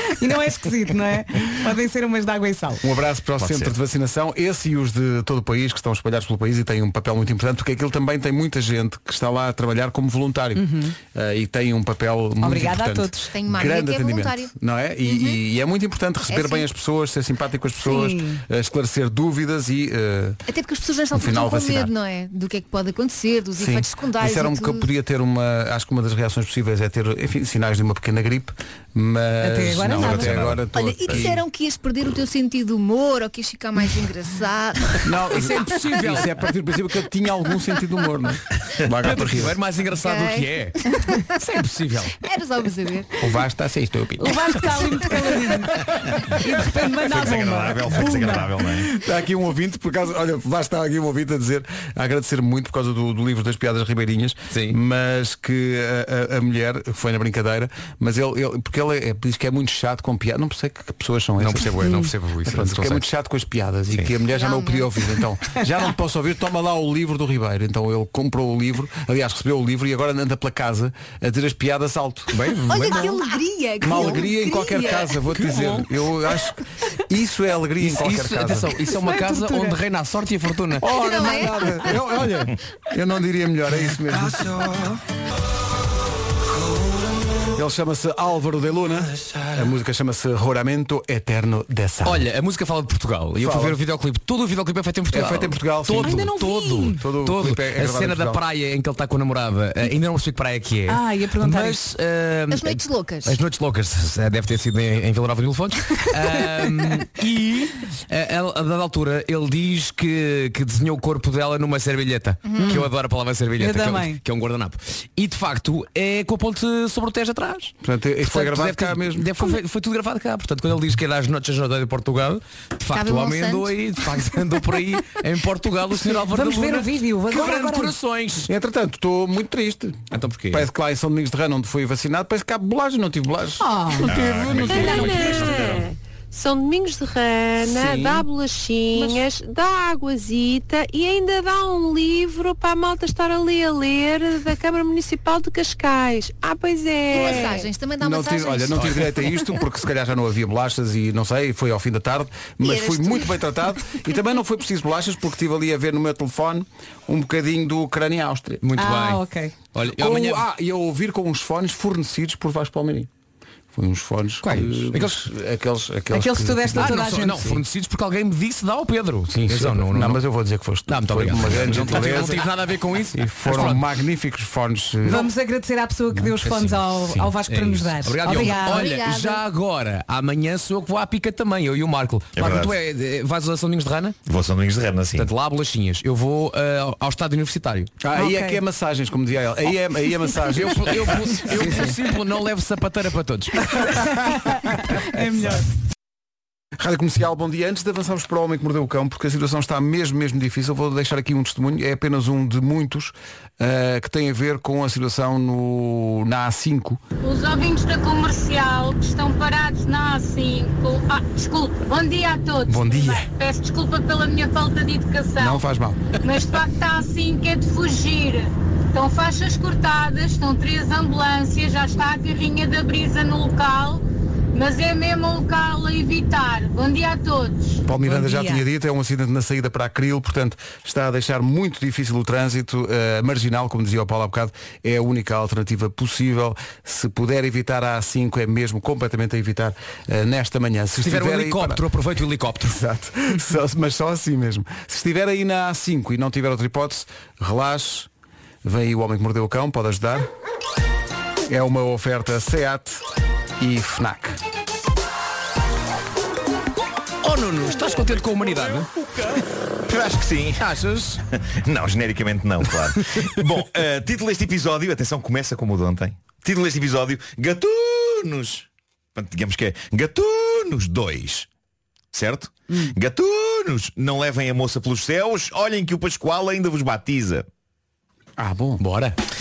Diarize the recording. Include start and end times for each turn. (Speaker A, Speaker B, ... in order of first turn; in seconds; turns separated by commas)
Speaker A: 0.2-2.8, Speaker B: 2.8-20.4, Speaker C: 3.4-3.8, Speaker A: 10.6-10.9, Speaker A: 12.4-13.3, Speaker D: 13.3-14.5, Speaker D: 15.0-15.4, Speaker D: 16.3-16.7, Speaker A: 17.8-18.4, Speaker D: 20.5-24.9, Speaker B: 21.1-21.9, Speaker B: 23.6-31.4, Speaker A: 29.4-30.5, Speaker C: 29.9-31.3, Speaker D: 30.7-35.6, Speaker B: 35.0-39.6, Speaker E: 35.3-36.4, Speaker E: 39.0-40.8, Speaker D: 40.0-41.2, Speaker E: 41.3-42.1, Speaker D: 42.2-43.1, Speaker E: 43.2-45.6, Speaker A: 44.2-48.6, Speaker B: 44.8-45.1, Speaker C: 47.0-48.9, Speaker B: 48.7-73.2, Speaker E: 54.5-54.8, Speaker E: 61.4-63.0, Speaker D: 64.3-64.9, Speaker E: 72.3-73.1, Speaker D: 72.7-75.2, Speaker B: 73.8-78.7, Speaker E: 75.4-75.8, Speaker E: 77.8-81.0, Speaker A: 78.9-79.8, Speaker B: 80.8-84.7, Speaker D: 80.9-81.9, Speaker B: 87.5-92.3, Speaker E: 92.0-128.5, Speaker B: 93.4-93.8, Speaker B: 95.1-96.4, Speaker A: 96.0-97.0, Speaker B: 96.9-98.4, Speaker A: 100.9-101.8, Speaker D: 102.5-103.4, Speaker D: 112.4-112.9, Speaker A: 112.6-112.9, Speaker A: 113.6-114.2, Speaker B: 117.8-119.3, Speaker D: 122.9-124.2, Speaker A: 126.0-127.9, Speaker B: 128.5-135.8, Speaker E: 130.1-130.7, Speaker A: 133.6-135.3, Speaker C: 134.1-134.8, Speaker E: 134.4-135.8, Speaker F: 134.8-147.6, Speaker B: 137.6-138.2, Speaker D: 139.0-139.2, Speaker D: 147.1-149.5, Speaker B: 147.3-158.6, Speaker D: 152.6-153.4, Speaker E: 158.6-160.5, Speaker A: 158.8-159.6, Speaker B: 159.9-163.1, Speaker B: 163.8-167.3, Speaker E: 164.4-165.2, Speaker A: 166.1-167.5, Speaker E: 166.7-170.2, Speaker B: 169.3-172.5, Speaker E: 170.9-173.8, Speaker B: 173.1-175.3, Speaker A: 175.0-178.9, Speaker B: 176.1-177.3, Speaker E: 177.4-184.2, Speaker D: 178.3-179.4, Speaker C: 182.4-182.8, Speaker C: 184.2-185.3, Speaker E: 185.1-187.9, Speaker B: 188.0-191.9, Speaker A: 188.1-188.6, Speaker E: 190.5-193.8, Speaker B: 193.8-194.5, Speaker A: 194.2-195.7, Speaker B: 196.8-207.0, Speaker G: 207.2-215.7, Speaker B: 212.7-213.3, Speaker B: 215.4-216.1, Speaker G: 216.2-224.0, Speaker G: 224.5-227.8, Speaker B: 227.9-241.8, Speaker A: 228.0-228.6, Speaker E: 241.0-242.8, Speaker B: 242.6-248.1, Speaker B: 248.6-250.3, Speaker B: 251.5-253.0, Speaker B: 253.6-254.4, Speaker E: 257.2-259.2, Speaker C: 259.9-260.6, Speaker E: 260.6-261.2, Speaker C: 261.6-271.5, Speaker C: 272.1-277.5, Speaker B: 278.4-278.8, Speaker E: 278.8-279.1